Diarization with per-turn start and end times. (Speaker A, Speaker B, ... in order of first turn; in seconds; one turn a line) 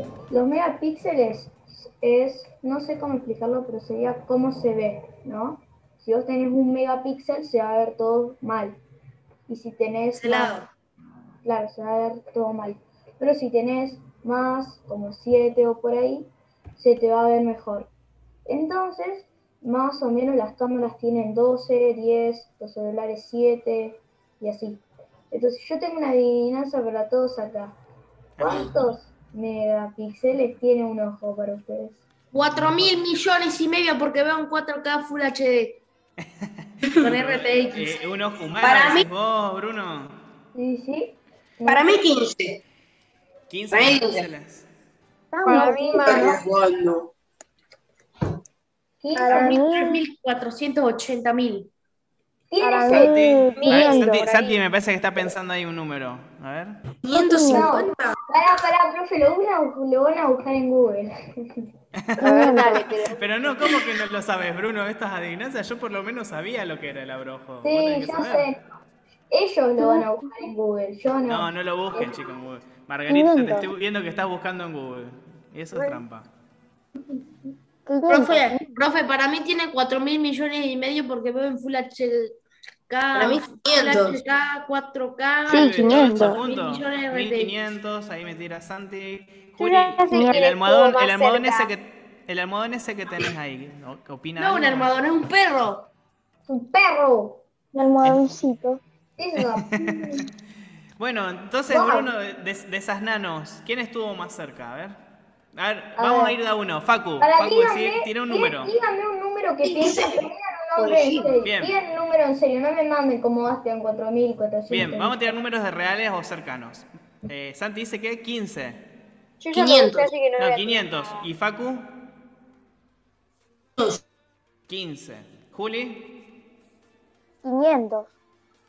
Speaker A: 0.3-8.8
Speaker A: 9.5-10.6
Speaker B: 10.1-10.7
Speaker A: 11.4-17.9
Speaker A: 18.4-27.8
Speaker C: 28.4-28.8
Speaker A: 28.4-32.0
Speaker B: 32.3-35.8
Speaker C: 32.5-33.0
Speaker C: 36.2-40.2
Speaker B: 37.0-38.0
Speaker D: 38.6-39.1
Speaker A: 40.5-42.0
Speaker D: 41.7-42.6
Speaker C: 43.5-44.7
Speaker D: 43.7-44.3
Speaker E: 45.3-46.4
Speaker A: 45.4-46.1
Speaker F: 45.4-46.4
Speaker D: 46.0-47.1
Speaker A: 49.0-49.6
Speaker E: 49.1-50.0
Speaker B: 49.3-51.7
Speaker A: 52.5-53.1
Speaker E: 52.6-54.2
Speaker C: 52.9-56.8
Speaker F: 53.6-54.6
Speaker D: 57.0-58.2
Speaker E: 57.1-57.7
Speaker A: 57.5-61.1
Speaker C: 62.0-62.4
Speaker A: 62.2-62.8
Speaker F: 62.2-63.5
Speaker E: 62.3-62.8
Speaker C: 63.1-68.5
Speaker A: 67.6-68.6
Speaker A: 69.3-72.1
Speaker E: 69.8-70.1
Speaker C: 71.2-76.3
Speaker E: 73.1-73.7
Speaker F: 75.7-76.0
Speaker E: 77.8-78.6
Speaker B: 78.1-82.4
Speaker B: 82.9-87.6
Speaker D: 83.1-84.2
Speaker E: 85.5-86.4
Speaker C: 85.5-94.9
Speaker F: 89.6-91.7
Speaker E: 90.1-90.5
Speaker B: 94.4-95.9
Speaker A: 96.5-97.4
Speaker E: 97.7-98.8
Speaker A: 99.2-100.2
Speaker C: 99.4-100.3
Speaker C: 101.0-105.0
Speaker A: 101.7-102.0
Speaker C: 105.5-108.7
Speaker A: 106.0-106.3
Speaker A: 107.2-115.3
Speaker D: 109.6-111.4
Speaker C: 111.4-111.8
Speaker C: 114.7-118.8
Speaker F: 119.4-121.2
Speaker D: 119.5-120.1
Speaker C: 120.4-121.9
Speaker C: 124.7-126.1
Speaker E: 127.4-128.1